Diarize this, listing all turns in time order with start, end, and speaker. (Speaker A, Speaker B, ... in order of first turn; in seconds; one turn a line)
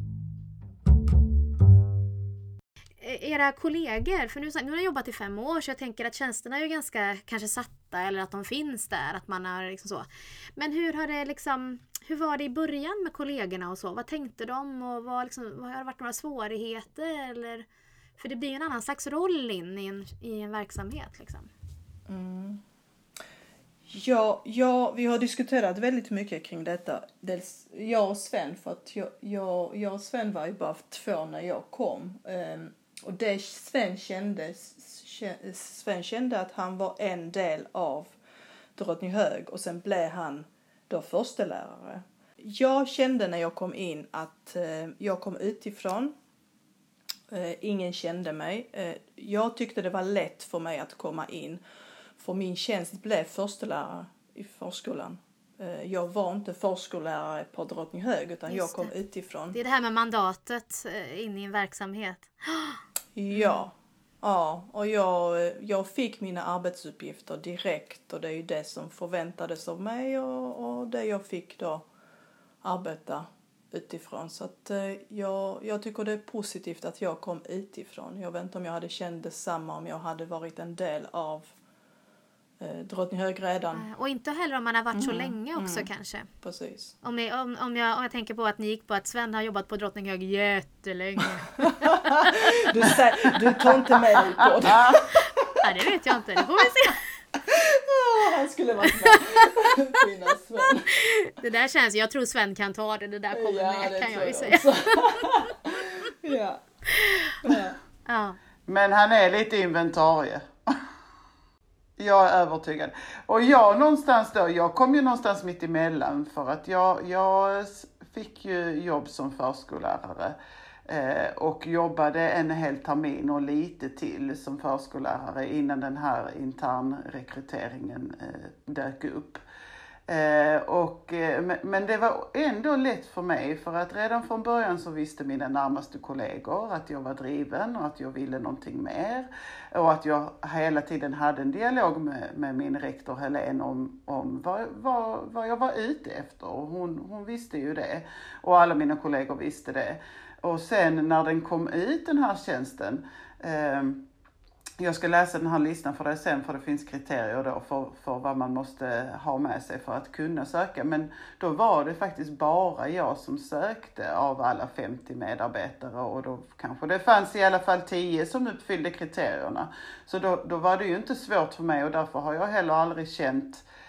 Speaker A: 3.0-17.6
Speaker A: 18.2-21.5
Speaker B: 22.1-22.6
Speaker B: 23.9-38.1
Speaker B: 38.8-46.1
Speaker B: 47.3-51.6
Speaker B: 52.2-59.6
Speaker A: 58.5-58.9
Speaker A: 59.5-62.8
Speaker B: 63.1-71.8
Speaker A: 63.3-63.6
Speaker B: 72.6-81.5
Speaker B: 82.6-83.9
Speaker A: 83.8-86.3
Speaker B: 84.9-85.9
Speaker B: 86.4-86.9
Speaker A: 87.0-92.5
Speaker B: 91.6-95.6
Speaker C: 94.4-95.0
Speaker A: 95.2-97.0
Speaker B: 97.5-101.0
Speaker A: 99.1-99.6
Speaker A: 101.0-105.4
Speaker B: 103.3-106.6
Speaker A: 106.9-107.4
Speaker B: 107.4-107.8
Speaker A: 108.1-108.4
Speaker C: 108.7-110.5
Speaker C: 112.0-120.4
Speaker C: 120.9-129.4
Speaker C: 130.1-154.0
Speaker C: 154.8-173.7